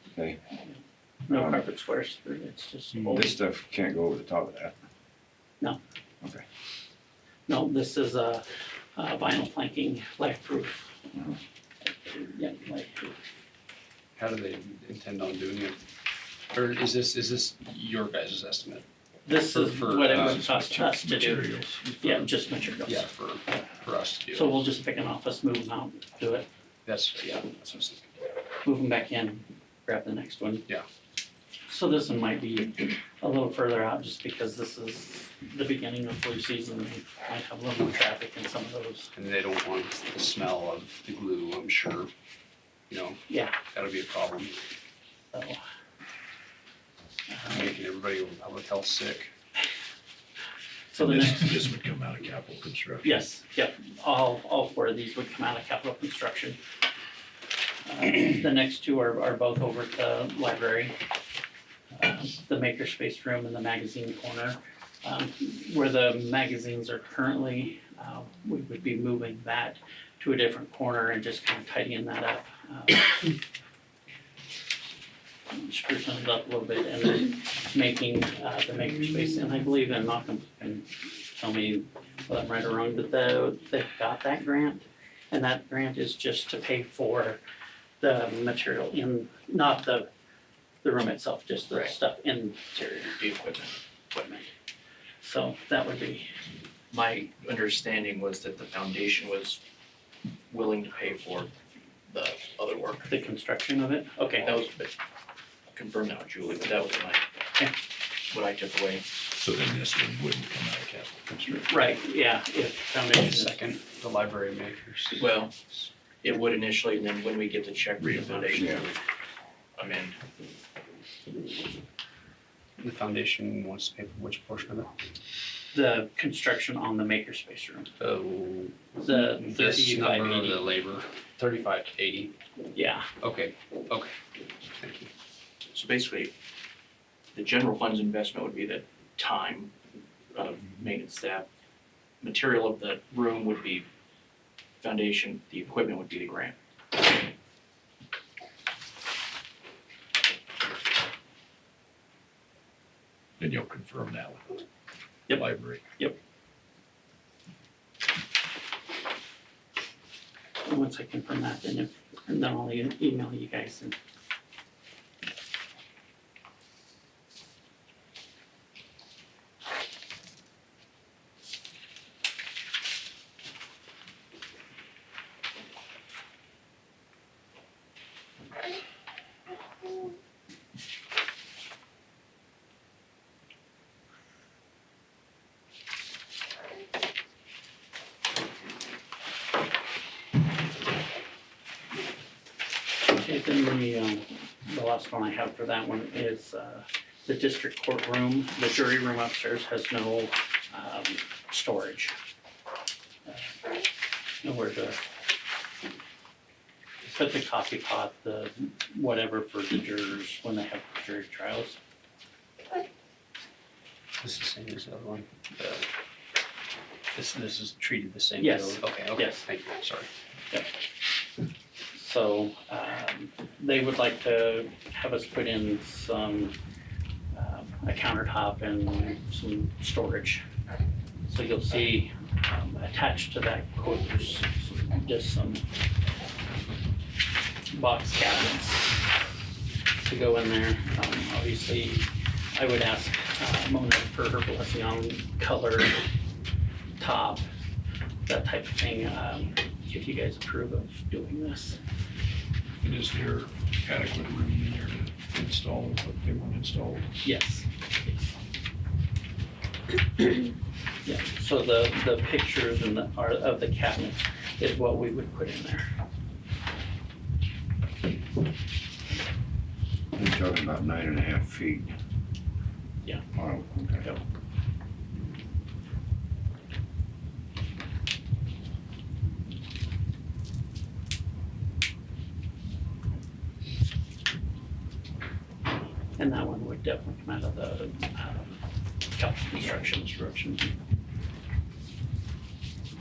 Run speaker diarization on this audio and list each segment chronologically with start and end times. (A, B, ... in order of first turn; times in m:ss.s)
0:01.3-0:03.4 A
0:01.3-0:01.6 B
0:03.0-0:04.8 B
0:07.5-0:08.4 A
0:08.9-0:11.1 A
0:11.8-0:13.1 A
0:14.2-0:15.8 C
0:16.5-0:18.8 C
0:19.2-0:23.1 A
0:19.4-0:20.5 C
0:19.9-0:22.2 D
0:22.8-0:24.6 C
0:24.3-0:26.5 A
0:26.8-0:28.1 C
0:28.6-0:30.7 A
0:31.6-0:39.1 A
0:39.1-0:42.1 C
0:42.9-0:44.5 C
0:43.3-0:43.6 A
0:45.3-0:45.6 A
0:47.3-0:47.7 A
0:47.5-0:49.3 C
0:50.9-0:51.6 A
0:51.0-0:53.2 D
0:53.0-0:56.6 A
0:57.8-1:01.0 A
1:01.9-1:13.3 A
1:15.5-1:27.4 A
1:28.0-1:30.1 A
1:30.8-1:33.2 A
1:33.2-1:33.7 E
1:34.1-1:34.5 A
1:35.2-1:36.3 A
1:36.9-1:39.6 E
1:40.5-1:41.5 E
1:42.1-1:43.1 E
1:43.1-1:44.6 A
1:44.4-1:44.9 E
1:45.7-1:47.2 E
1:48.3-1:49.0 E
1:49.4-1:51.3 D
1:50.9-1:51.7 C
1:51.6-1:53.6 A
1:53.1-1:55.3 C
1:55.1-1:55.6 E
1:56.2-1:59.0 E
1:58.0-1:58.8 D
1:58.6-1:58.8 B
1:59.8-2:00.2 E
2:02.8-2:04.9 C
2:05.7-2:07.9 A
2:08.0-2:12.3 C
2:09.0-2:10.6 A
2:12.7-2:13.1 A
2:13.2-2:14.1 C
2:14.8-2:15.1 C
2:15.7-2:16.3 E
2:17.3-2:19.7 E
2:20.3-2:21.5 E
2:22.2-2:23.9 E
2:24.8-2:26.6 E
2:33.4-2:34.6 D
2:35.3-2:36.2 A
2:35.3-2:35.8 D
2:40.6-2:44.0 A
3:13.1-3:22.1 A
3:23.3-3:23.5 A
3:24.4-3:25.0 A
3:27.0-3:31.8 A
3:34.2-3:35.8 C
3:37.1-3:40.1 C
3:38.4-3:39.4 A
3:41.9-3:46.6 A
3:47.3-3:50.4 A
3:51.2-3:55.6 A
3:57.7-3:59.1 A
4:00.0-4:06.0 A
4:07.0-4:07.4 A
4:08.3-4:11.8 A
4:12.8-4:17.1 D
4:17.2-4:18.3 A
4:21.0-4:25.8 A
4:30.1-4:31.9 B
4:33.3-4:34.0 B
4:46.2-4:50.7 A